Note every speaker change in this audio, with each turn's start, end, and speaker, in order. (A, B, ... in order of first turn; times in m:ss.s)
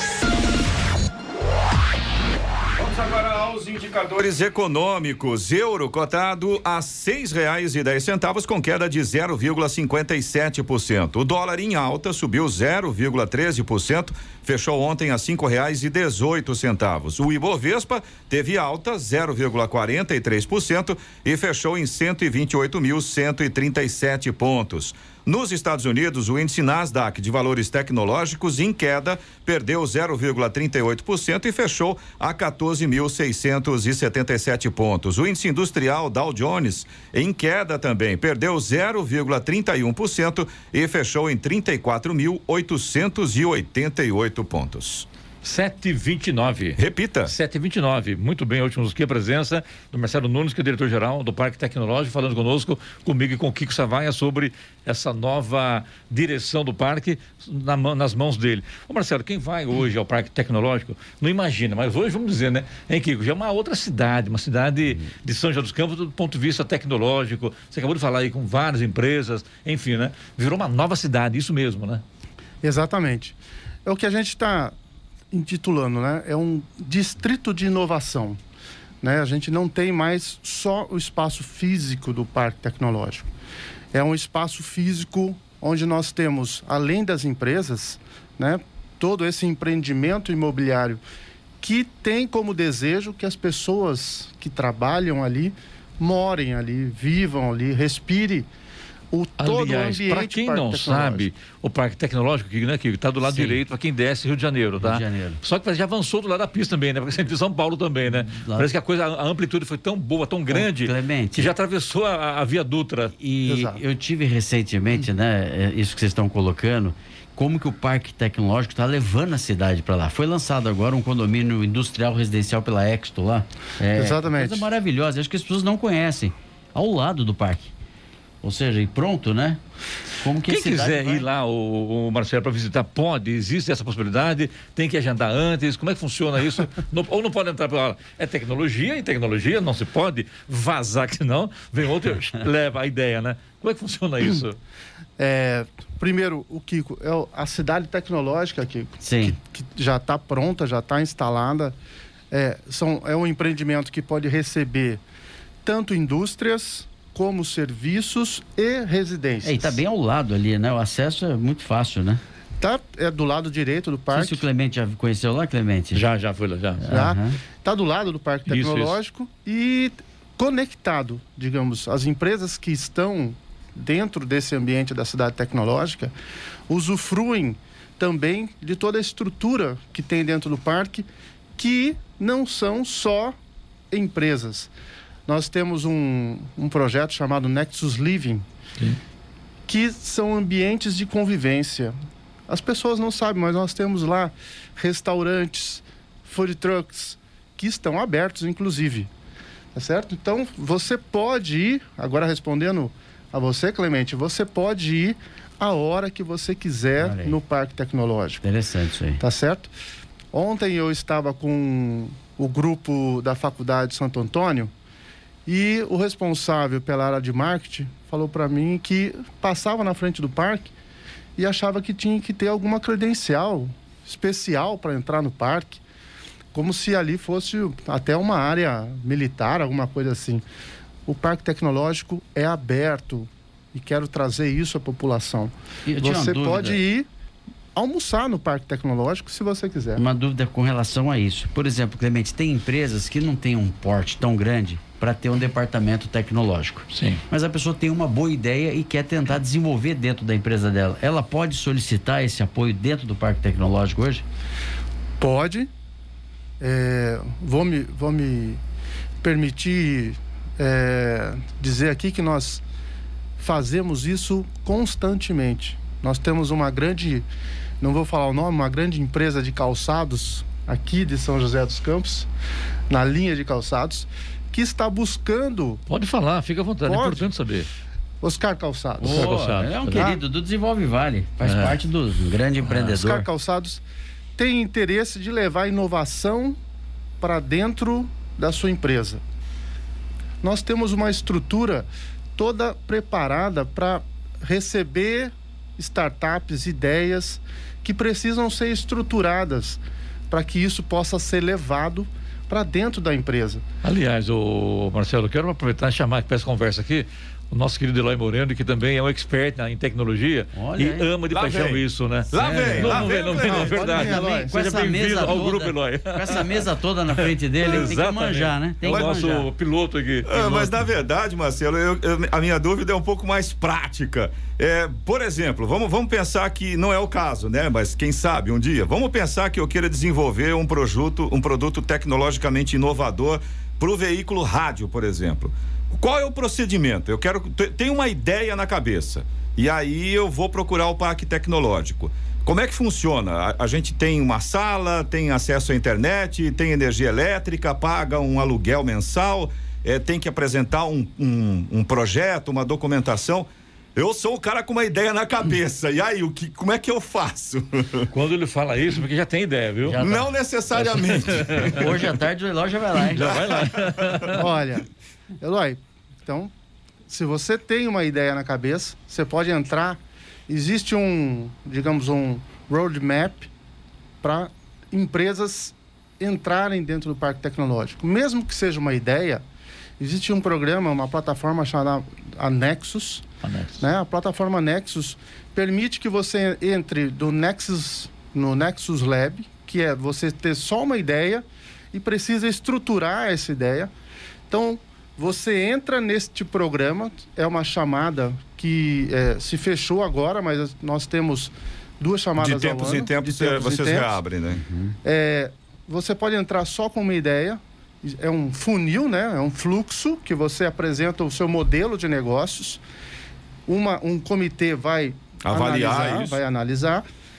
0:02.8-0:45.1 A
0:45.4-1:12.0 B
0:46.8-0:47.3 A
1:12.6-1:14.8 C
1:15.3-1:18.4 C
1:19.0-1:23.3 C
1:23.9-1:31.0 C
1:31.6-1:38.5 C
1:39.1-1:41.3 C
1:39.4-1:53.1 B
1:43.2-1:43.6 D
1:44.8-1:45.4 D
1:48.1-1:48.7 D
1:50.5-1:51.5 D
1:53.2-2:07.7 D
1:53.5-1:53.8 C
2:03.9-2:04.7 C
2:08.4-2:09.6 D
2:10.2-2:11.2 D
2:10.5-2:24.6 B
2:25.2-2:31.8 C
2:29.0-2:29.4 D
2:32.3-2:35.0 C
2:35.6-2:39.8 C
2:39.4-2:42.2 D
2:42.6-2:44.4 C
2:44.1-2:46.0 D
2:45.9-2:46.8 B
2:46.8-2:47.4 D
2:46.9-2:56.1 C
2:48.5-2:48.9 B
2:56.7-3:03.4 C
3:03.9-3:04.7 C
3:05.3-3:08.5 C
3:09.7-3:12.0 C
3:12.5-3:19.1 C
3:19.8-3:28.4 C
3:27.0-3:27.4 D
3:28.4-3:29.2 D
3:29.2-3:29.7 C
3:30.3-3:34.7 C
3:35.5-3:40.7 C
3:41.4-3:45.8 C
3:46.5-3:50.4 C
3:51.1-3:57.1 C
3:55.9-3:56.8 D
3:57.8-4:00.0 C
4:00.0-4:14.2 D
4:06.9-4:07.2 B
4:15.2-4:15.7 C
4:16.6-4:18.6 C
4:19.2-4:22.6 C
4:23.4-4:27.3 C
4:27.8-4:32.3 C
4:32.9-4:35.8 C
4:35.9-4:37.7 B
4:36.8-4:37.3 C
4:38.2-4:39.4 C
4:39.0-4:43.3 D
4:39.1-4:40.1 B
4:39.9-4:40.2 C
4:41.4-4:41.8 B
4:42.7-4:43.8 C
4:44.4-4:46.6 C
4:47.2-4:49.2 C
4:50.4-5:03.6 C
5:03.8-5:16.7 B
5:10.5-5:11.1 D
5:11.3-5:14.1 A
5:12.3-5:13.1 D
5:13.5-5:14.5 C
5:14.0-5:19.5 D
5:17.6-5:20.7 B
5:20.3-5:58.1 A
5:58.1-6:00.0 B
5:59.8-6:00.3 D
6:00.0-6:02.0 A
6:01.0-6:02.0 B
6:01.6-6:03.4 D
6:03.1-6:04.5 B
6:03.3-6:04.2 A
6:04.4-6:04.8 C
6:05.4-6:06.5 C
6:07.1-6:13.5 C
6:14.2-6:19.4 C
6:20.0-6:23.2 C
6:23.4-6:23.8 B
6:23.8-6:33.9 C
6:34.5-6:44.2 C
6:42.4-6:44.6 A
6:44.5-6:45.0 D
6:45.0-6:52.8 C
6:53.7-6:57.1 C
6:55.4-6:56.4 A